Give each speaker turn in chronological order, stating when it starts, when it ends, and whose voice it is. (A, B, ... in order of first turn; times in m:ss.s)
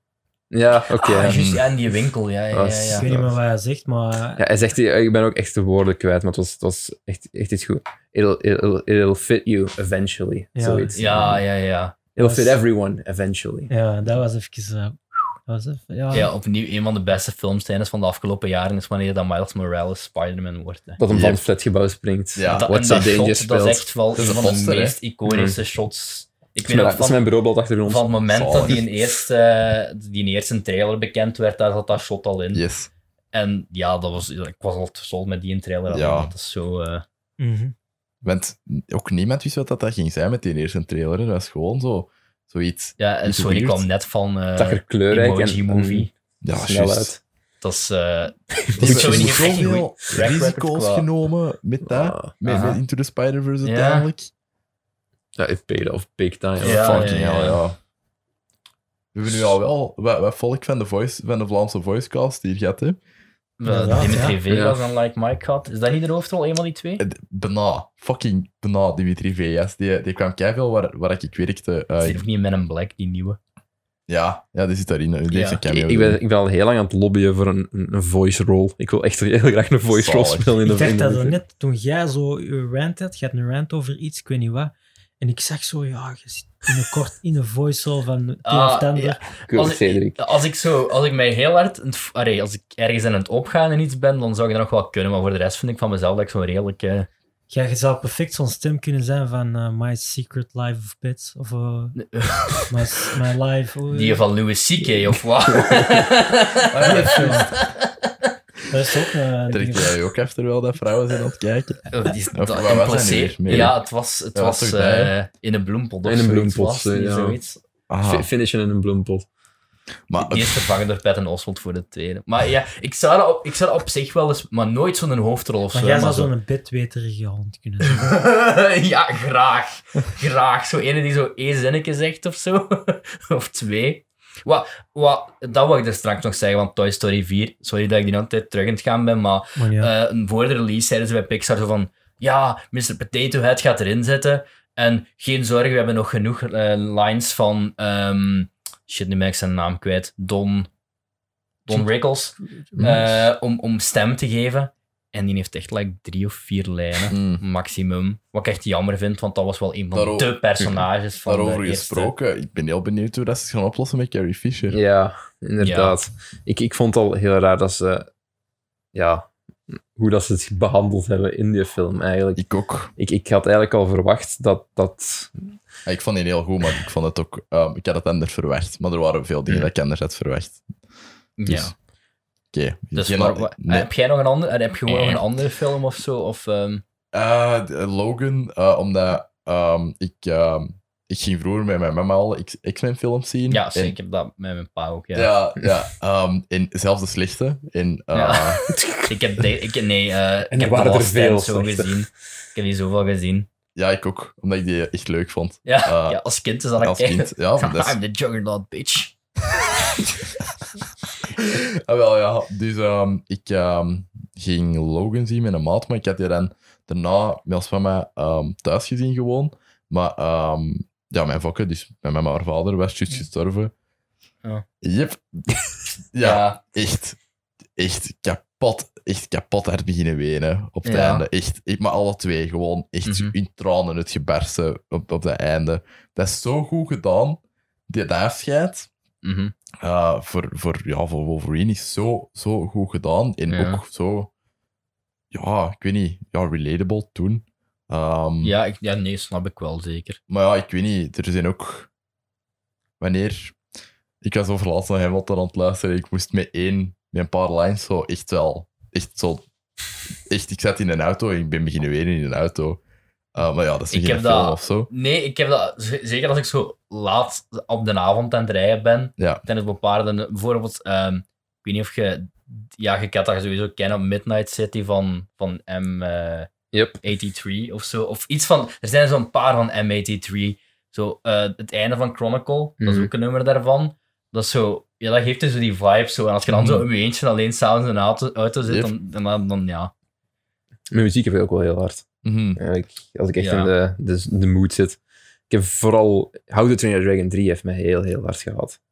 0:00.5-0:01.4 A
0:01.0-0:03.1 B
0:01.2-0:01.6 C
0:02.5-0:03.1 A
0:03.0-0:04.4 D
0:04.4-0:11.4 A
0:10.6-0:11.3 D
0:10.9-0:12.0 B
0:12.2-0:13.7 A
0:12.2-0:12.6 D
0:13.7-0:16.3 D
0:16.1-0:21.0 B
0:21.0-0:23.9 A
0:21.1-0:21.4 C
0:22.4-0:23.1 C
0:22.5-0:27.2 B
0:24.2-0:25.0 C
0:25.3-0:25.6 A
0:26.7-0:28.8 A
0:27.8-0:32.6 B
0:28.3-0:28.8 C
0:32.5-0:32.9 C
0:33.3-0:37.0 B
0:35.9-0:36.3 C
0:37.4-0:37.7 D
0:38.2-0:43.9 C
0:43.0-0:46.1 B
0:44.6-0:47.2 A
0:46.4-0:47.2 C
0:47.6-0:51.1 B
0:48.7-0:49.6 A
0:48.8-0:54.3 C
0:51.8-0:52.4 A
0:52.4-0:52.8 B
0:53.6-0:54.1 B
0:55.4-0:57.1 A
0:56.6-0:57.8 C
0:56.6-0:57.6 B
0:59.1-1:03.0 C
1:03.6-1:07.0 B
1:03.6-1:04.4 D
1:04.5-1:04.8 A
1:07.0-1:12.2 C
1:12.0-1:13.4 B
1:14.1-1:16.2 C
1:15.3-1:15.6 B
1:15.6-1:21.4 A
1:19.9-1:20.6 C
1:20.6-1:29.3 D
1:28.4-1:37.1 B
1:29.5-1:30.2 A
1:37.5-1:42.0 D
1:42.0-1:42.7 B
1:42.7-1:44.2 D
1:43.9-1:48.1 B
1:46.7-1:47.4 C
1:46.8-1:47.6 D
1:48.7-1:50.0 D
1:49.5-1:53.8 C
1:51.9-1:57.6 B
1:53.5-1:53.7 A
1:54.4-1:55.1 C
1:56.0-1:57.4 A
1:57.9-1:58.3 C
1:58.0-1:59.3 A
2:00.1-2:00.6 C
2:00.2-2:06.3 B
2:05.7-2:08.1 D
2:07.9-2:30.7 B
2:19.6-2:19.9 D
2:31.7-2:42.1 B
2:37.1-2:37.4 C
2:39.9-2:40.4 C
2:40.6-2:40.8 A
2:41.2-2:44.8 C
2:44.7-2:48.1 A
2:45.6-2:46.0 B
2:48.9-2:55.6 A
2:52.4-2:52.9 C
2:55.9-3:00.6 C
3:01.4-3:01.7 B
3:01.5-3:01.7 C
3:02.5-3:03.9 C
3:02.9-3:06.8 B
3:04.9-3:05.2 C
3:07.1-3:14.0 C
3:13.5-3:15.3 B
3:15.1-3:18.6 C
3:18.1-3:23.5 B
3:18.7-3:19.1 A
3:20.5-3:22.0 A
3:23.8-3:26.2 C
3:25.7-3:29.1 B
3:26.8-3:28.0 C
3:31.3-3:43.7 C
3:44.8-3:47.2 C
3:46.2-3:46.6 B
3:47.8-3:58.9 C
3:50.8-3:51.3 B
3:53.0-3:53.3 B
3:59.2-3:59.5 B
3:59.8-4:04.3 C
4:03.5-4:03.8 B
4:05.3-4:08.6 C
4:08.4-4:10.2 B
4:10.3-4:11.9 C
4:13.0-4:13.6 C
4:14.2-4:19.5 C
4:20.3-4:22.8 C
4:23.4-4:24.9 C
4:23.9-4:36.5 B
4:29.2-4:29.4 C
4:36.7-4:37.0 A
4:37.0-4:49.9 B
4:42.8-4:43.1 A
4:48.7-4:48.9 C
4:50.9-4:52.0 A
4:52.2-4:52.6 C
4:52.6-4:55.0 A
4:53.4-4:53.7 B
4:55.5-4:58.8 A